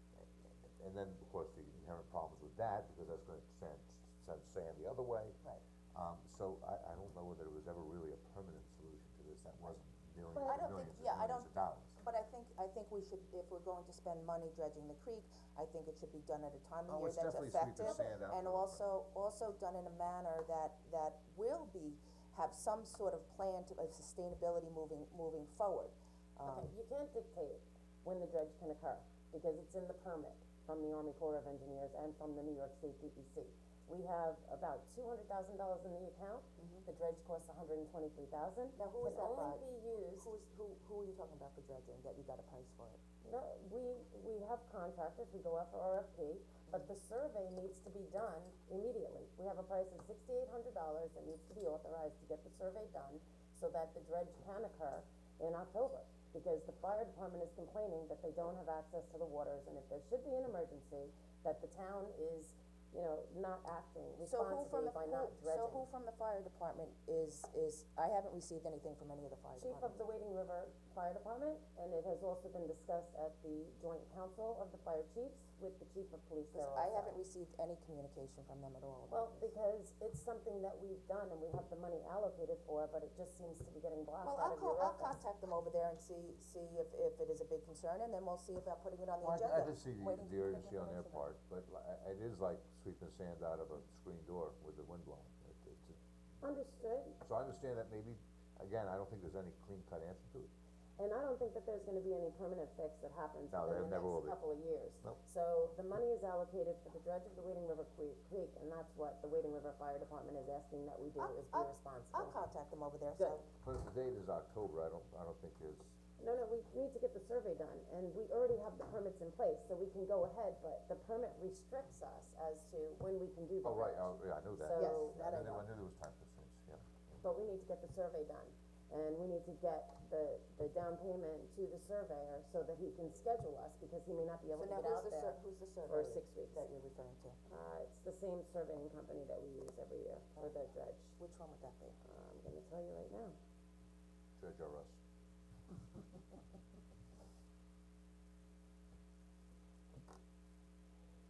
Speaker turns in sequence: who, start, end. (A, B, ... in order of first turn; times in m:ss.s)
0:00.2-0:05.4 A
0:05.9-0:12.0 A
0:10.3-0:10.6 B
0:10.4-0:26.7 C
0:16.9-0:18.8 A
0:17.8-0:18.2 B
0:26.4-0:40.3 B
0:36.6-0:36.9 C
0:38.8-0:43.0 C
0:43.2-1:05.9 B
1:04.2-1:10.0 C
1:09.6-1:17.2 B
1:16.5-1:19.4 C
1:19.1-1:25.2 B
1:24.2-1:31.3 C
1:29.2-1:36.0 A
1:36.4-1:37.2 B
1:37.2-1:40.5 A
1:41.0-1:52.4 B
1:43.5-1:44.4 A
1:51.2-1:53.4 C
1:53.2-1:53.4 B
1:53.6-1:56.0 A
1:56.2-2:05.2 B
2:03.6-2:07.2 A
2:04.7-2:05.7 C
2:07.2-2:16.7 B
2:14.6-2:17.4 C
2:17.5-2:21.2 B
2:21.2-2:22.0 C
2:22.0-2:23.4 B
2:24.4-2:25.0 A